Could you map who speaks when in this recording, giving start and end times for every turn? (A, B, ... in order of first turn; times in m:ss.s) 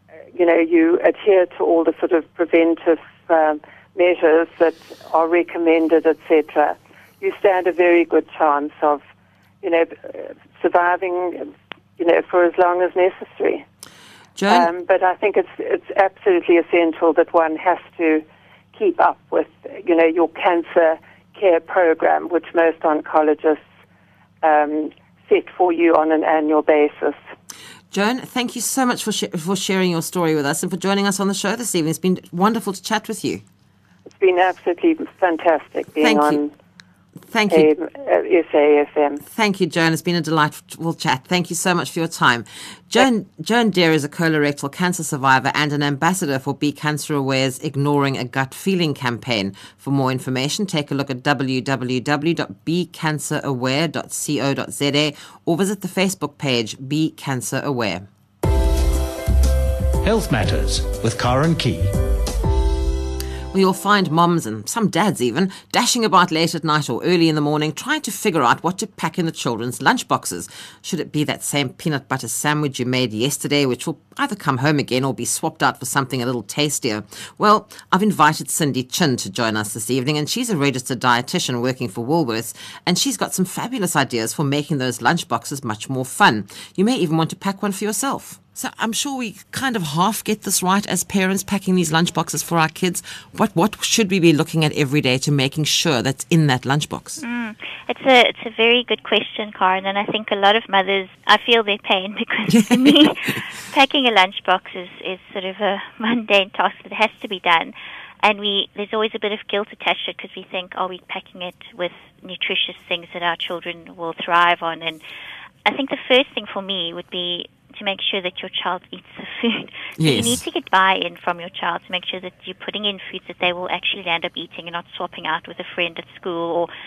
0:00.3-0:09.0 A
0:09.6-0:13.6 A
0:14.4-0:14.7 B
0:14.5-0:23.6 A
0:24.4-0:27.2 A
0:27.9-0:33.4 B
0:34.1-0:36.5 A
0:36.0-0:36.4 B
0:37.3-0:37.7 B
0:37.5-0:39.2 A
0:39.2-0:58.0 B
1:00.0-1:02.0 C
1:03.5-1:37.2 B
1:37.2-1:55.0 D
1:42.5-1:43.4 B
1:55.6-2:06.7 D
2:00.0-2:00.4 B